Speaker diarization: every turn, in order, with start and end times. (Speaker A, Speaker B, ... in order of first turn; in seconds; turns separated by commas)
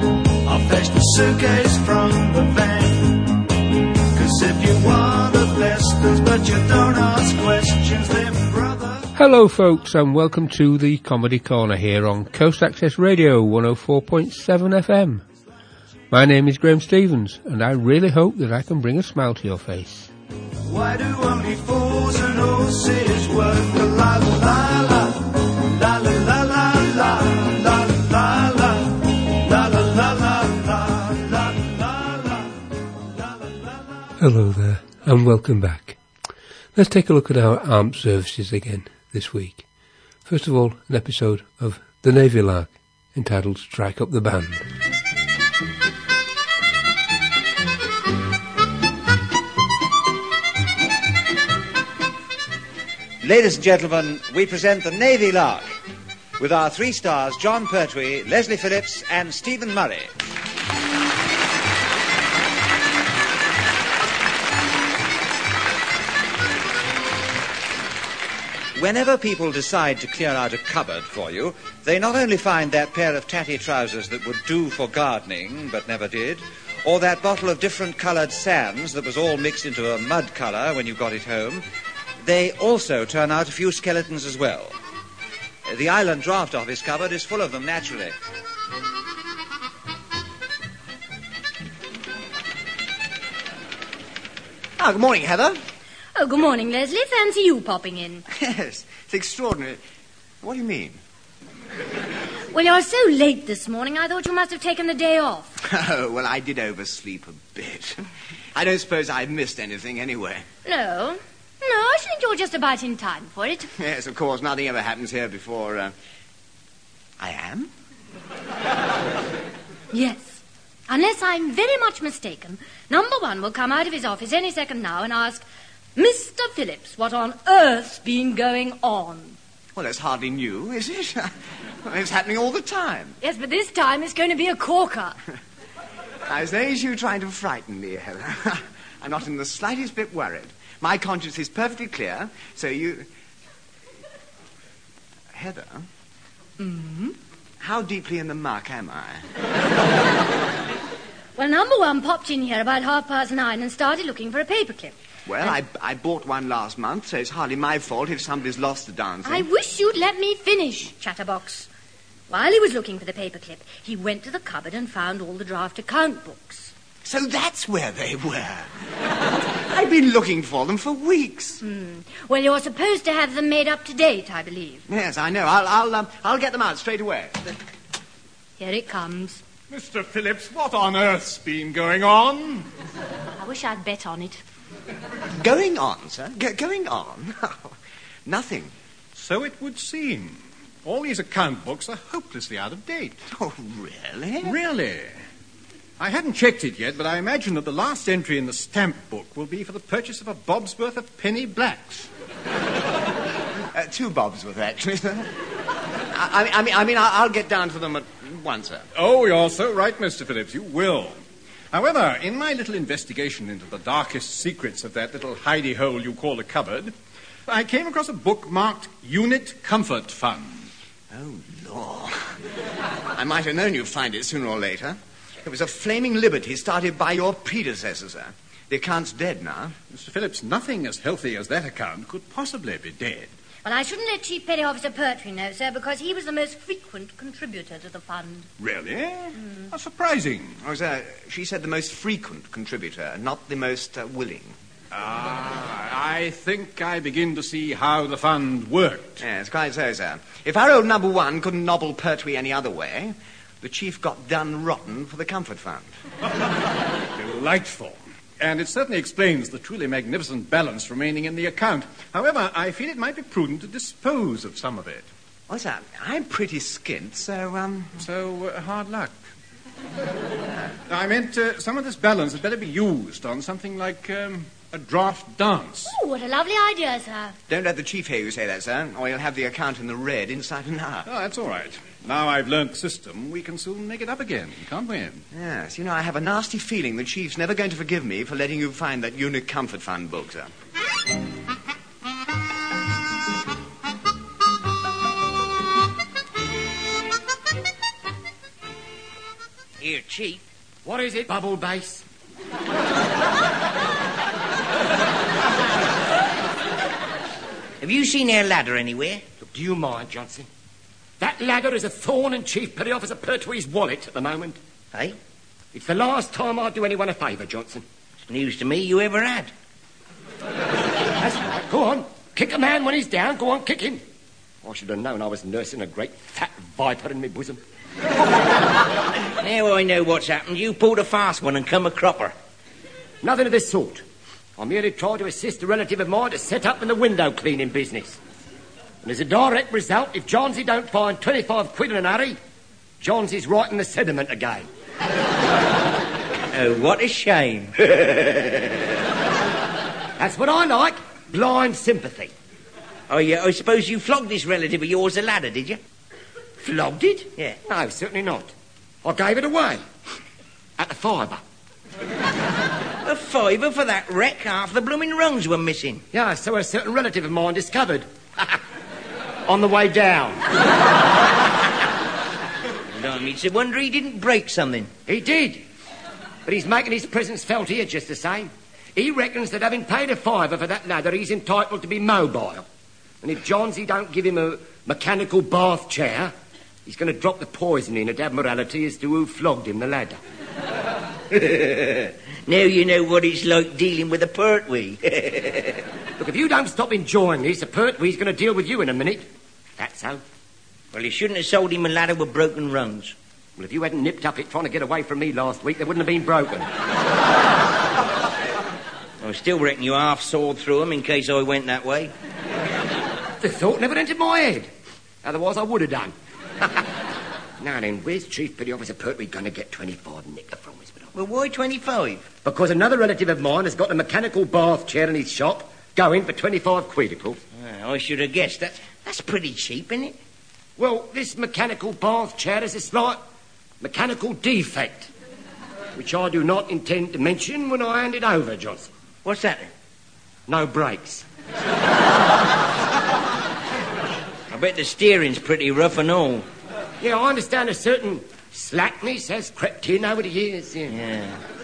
Speaker A: 0.4-3.5, Speaker A: 4.1-9.1, Speaker B: 9.1-15.2, Speaker B: 16.1-20.1, Speaker A: 20.6-32.5, Speaker A: 33.2-33.5, Speaker B: 34.2-36.0, Speaker B: 36.7-39.6, Speaker B: 40.3-44.6, Speaker C: 53.2-55.7, Speaker C: 56.4-60.1, Speaker C: 68.8-81.7, Speaker C: 82.2-84.7, Speaker C: 85.7-88.1, Speaker D: 94.8-95.6, Speaker E: 96.2-98.2, Speaker D: 98.3-99.8, Speaker D: 100.4-101.0, Speaker E: 102.5-105.6, Speaker D: 105.6-108.0, Speaker D: 108.5-110.4, Speaker E: 110.7-113.7, Speaker D: 113.8-115.9, Speaker D: 117.2-117.7, Speaker E: 119.9-125.4, Speaker E: 126.0-129.4, Speaker D: 129.8-131.3, Speaker D: 131.8-133.2, Speaker E: 133.2-135.2, Speaker D: 136.3-143.1, Speaker D: 145.3-145.8, Speaker E: 146.6-147.2, Speaker D: 147.6-149.2, Speaker E: 151.4-154.9, Speaker D: 155.3-159.5, Speaker E: 159.2-161.7, Speaker E: 162.3-166.7, Speaker D: 167.0-168.7, Speaker D: 169.5-171.6, Speaker E: 171.6-174.8, Speaker D: 174.9-177.4, Speaker E: 178.6-179.4, Speaker F: 179.7-182.7, Speaker E: 183.4-184.4, Speaker D: 185.4-188.7, Speaker F: 189.2-193.2, Speaker D: 193.3-194.6, Speaker F: 194.4-195.2, Speaker F: 196.0-202.1, Speaker D: 203.7-205.3, Speaker D: 206.1-208.8, Speaker F: 208.9-211.2, Speaker F: 211.7-216.9, Speaker F: 217.5-220.7, Speaker D: 221.1-222.2, Speaker D: 223.1-229.8, Speaker F: 229.9-233.3, Speaker E: 233.6-238.5, Speaker F: 238.6-240.6, Speaker D: 240.6-244.6, Speaker F: 244.9-249.2, Speaker D: 249.2-255.9, Speaker F: 257.1-265.1, Speaker D: 265.5-267.9, Speaker F: 268.0-269.1, Speaker F: 270.9-275.9, Speaker E: 275.9-277.4, Speaker D: 277.5-281.1, Speaker F: 281.1-285.2, Speaker D: 285.3-290.5, Speaker G: 299.8-300.4, Speaker H: 300.9-302.1, Speaker G: 307.8-309.2, Speaker H: 309.4-310.5, Speaker H: 311.2-314.6, Speaker H: 315.7-317.9, Speaker G: 318.3-319.5, Speaker H: 321.1-324.0, Speaker H: 324.6-327.6, Speaker G: 329.4-332.3, Speaker H: 333.2-334.1, Speaker H: 334.6-338.2, Speaker H: 339.0-342.4, Speaker H: 343.0-344.7, Speaker G: 346.5-348.9, Speaker H: 350.2-352.3, Speaker G: 353.1-355.8, Speaker H: 356.6-358.5, Speaker H: 359.0-359.8, Speaker H: 360.8-361.4, Speaker G: 363.0-366.0, Speaker H: 366.1-368.5, Speaker H: 369.4-370.4, Speaker G: 372.9-374.9, Speaker H: 375.1-375.6, Speaker H: 376.4-382.7, Speaker H: 383.2-386.3, Speaker H: 386.9-390.2, Speaker G: 391.3-395.8, Speaker H: 396.2-399.2, Speaker H: 399.8-400.2, Speaker G: 400.9-403.1, Speaker H: 403.6-406.7, Speaker G: 409.2-412.1, Speaker H: 413.4-414.7, Speaker H: 415.2-416.1, Speaker H: 417.6-421.1, Speaker G: 421.1-422.3, Speaker H: 422.4-427.4, Speaker G: 427.6-430.2, Speaker H: 430.8-433.2, Speaker H: 433.8-435.1, Speaker H: 435.9-438.9, Speaker G: 439.2-439.7, Speaker H: 440.5-441.2, Speaker G: 444.5-446.5, Speaker H: 447.0-451.0, Speaker G: 450.9-451.4